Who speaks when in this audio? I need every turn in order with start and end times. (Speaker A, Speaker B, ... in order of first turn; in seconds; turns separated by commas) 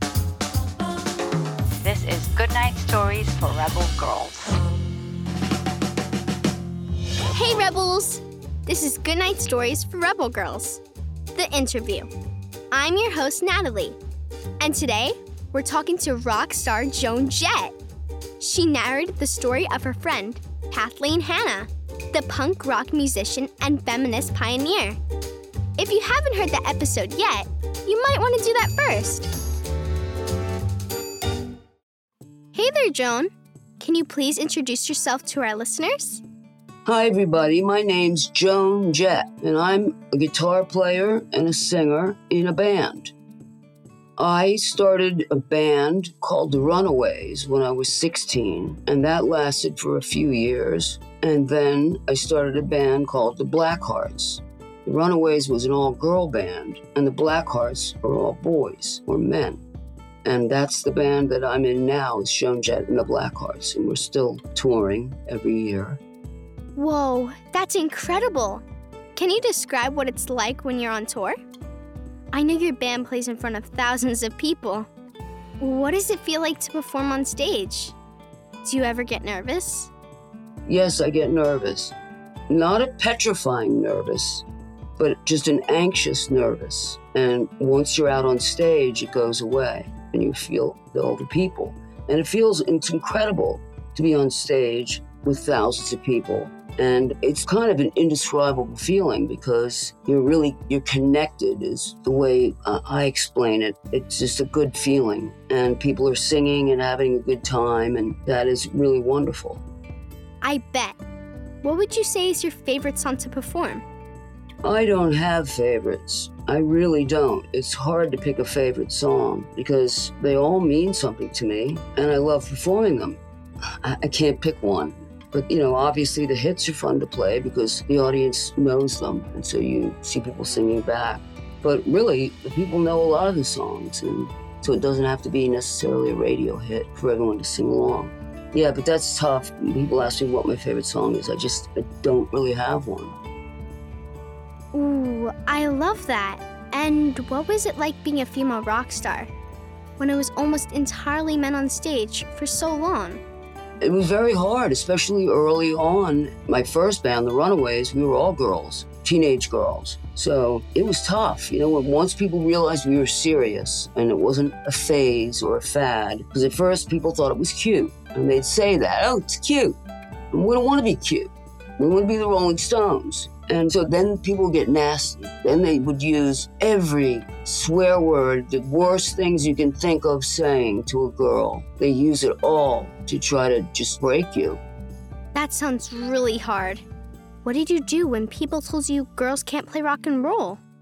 Speaker A: 1.8-4.5, Speaker B: 7.3-10.8, Speaker B: 11.3-12.1, Speaker B: 12.7-14.0, Speaker B: 14.6-17.8, Speaker B: 18.4-25.0, Speaker B: 25.8-29.3, Speaker B: 32.5-36.2, Speaker C: 36.9-43.1, Speaker C: 44.2-59.6, Speaker C: 60.2-66.0, Speaker B: 66.7-71.4, Speaker B: 72.3-74.9, Speaker B: 75.6-78.0, Speaker B: 78.6-79.9, Speaker C: 80.7-81.9, Speaker C: 82.5-84.4, Speaker C: 85.0-109.6, Speaker B: 110.4-111.0, Speaker B: 111.6-113.8, Speaker C: 114.6-123.2, Speaker C: 123.8-143.2, Speaker B: 144.7-149.3, Speaker B: 150.0-153.2, Speaker C: 153.8-169.8, Speaker C: 170.3-184.6, Speaker B: 185.3-186.8, Speaker B: 187.4-190.6